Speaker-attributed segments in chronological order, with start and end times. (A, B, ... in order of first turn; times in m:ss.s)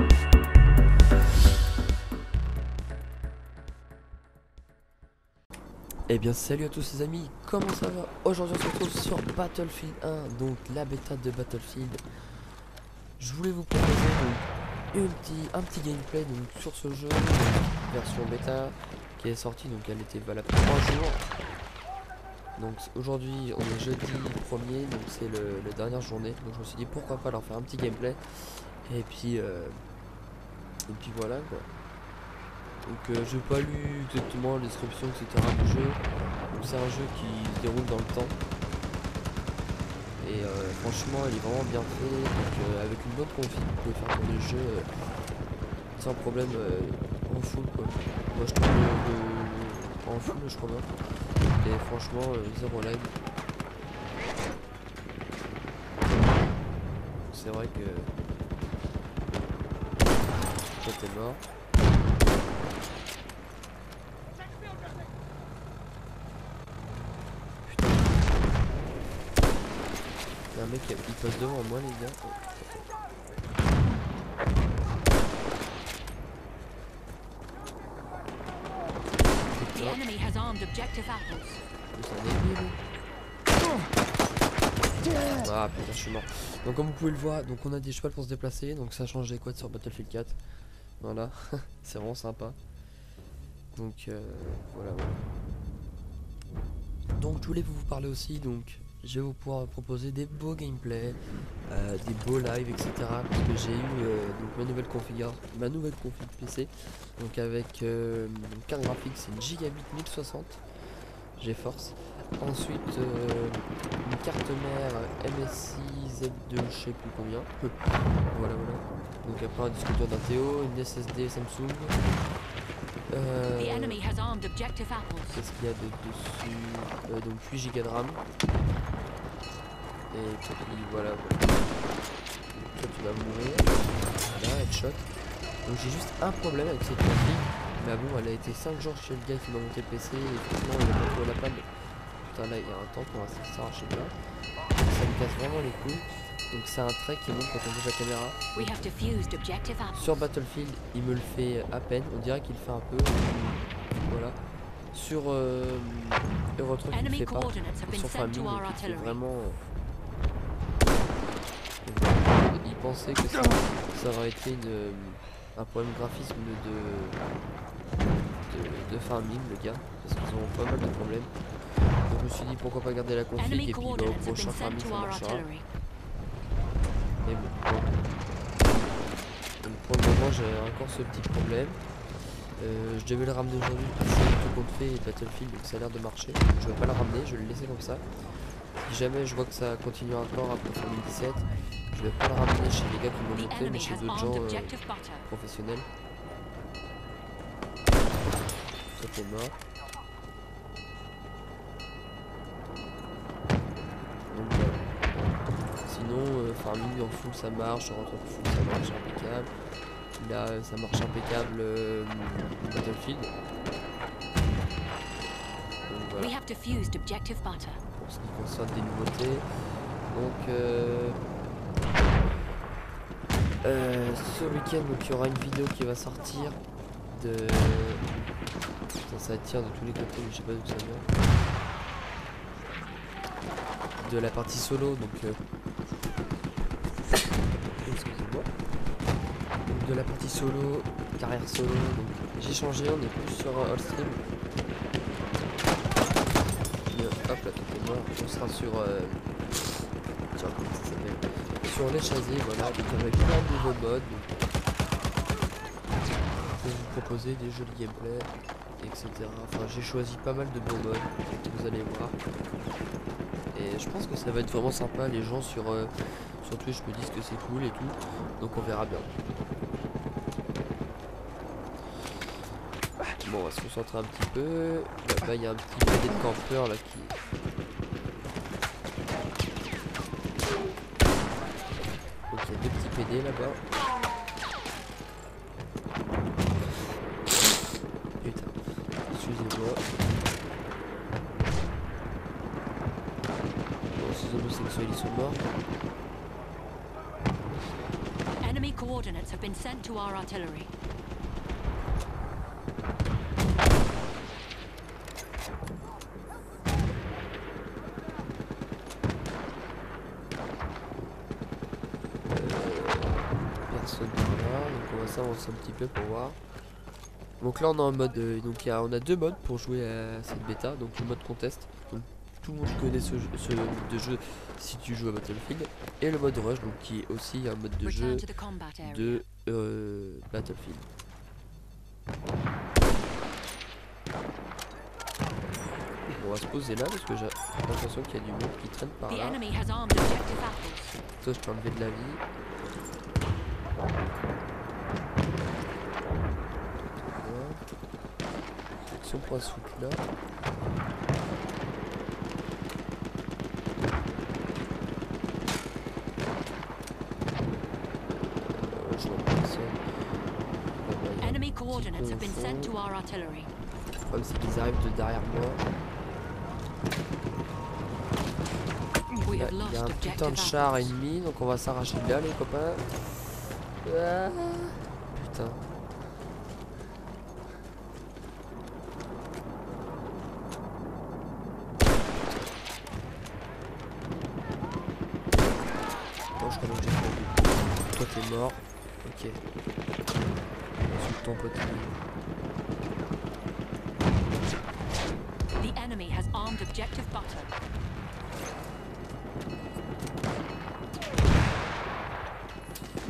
0:06.1-0:12.0 A
0:13.2-0:21.4 A
0:22.6-0:28.2 A
0:28.8-0:29.8 A
0:30.9-0:31.7 A
0:32.8-0:38.4 A
0:40.2-0:44.9 A
0:46.0-0:50.9 A
0:51.4-0:53.1 A
0:57.3-0:58.1 A
1:00.8-1:01.4 A
1:07.7-1:08.2 A
1:10.5-1:12.4 A
1:19.5-1:20.0 A
1:19.7-1:21.6 B
1:21.9-1:22.8 A
1:25.4-1:30.4 A
1:31.0-1:32.6 A
1:33.7-1:35.2 A
1:37.2-1:41.2 A
1:41.7-1:50.6 A
1:51.4-1:57.7 A
1:58.3-2:02.0 A
2:03.1-2:04.0 A
2:03.6-2:05.4 B
2:05.3-2:08.2 A
2:10.1-2:11.8 A
2:12.7-2:15.1 A
2:15.6-2:21.7 A
2:22.2-2:24.1 A
2:24.8-2:28.7 A
2:28.6-2:30.0 B
2:29.9-2:34.4 A
2:34.9-2:39.6 A
2:36.9-2:39.2 B
2:41.8-2:47.2 A
2:48.5-2:51.3 A
2:52.1-2:55.5 A
2:53.4-2:55.6 B
2:57.2-2:58.0 A
2:59.6-3:01.8 A
3:02.6-3:08.0 A
3:08.8-3:15.9 A
3:13.3-3:15.3 B
3:19.0-3:19.6 A
3:24.3-3:25.0 A
3:25.8-3:29.5 A
3:30.2-3:33.3 A
3:35.9-3:36.4 A
3:36.2-3:37.8 B
3:38.0-3:39.4 A
3:40.1-3:41.2 A
3:43.6-3:46.6 A
3:47.1-3:48.0 A
3:49.1-3:51.1 A
3:54.0-3:55.4 A
3:57.8-3:58.5 A
3:59.7-4:04.2 A
4:06.9-4:09.2 A
4:10.4-4:14.3 A
4:16.5-4:22.2 A
4:23.5-4:29.1 A
4:33.2-4:37.2 A
4:42.3-4:43.6 A
4:48.2-4:48.5 A
4:49.1-4:49.8 A
4:54.0-4:55.5 A
4:58.4-5:00.7 B
5:12.3-5:16.4 A
5:17.4-5:28.3 A
5:27.8-5:29.2 B
5:28.8-5:30.9 A
5:36.2-5:39.4 A
5:39.1-5:41.0 B
5:41.1-5:42.2 A
5:46.8-5:47.6 A
5:48.8-5:50.1 A
5:58.1-5:59.8 A
6:00.8-6:02.8 A
6:01.2-6:03.5 B
6:04.1-6:05.6 A
6:09.2-6:10.9 B
6:09.3-6:12.9 A
6:13.8-6:15.6 A
6:26.4-6:29.4 A
6:30.9-6:32.0 A
6:35.6-6:37.5 B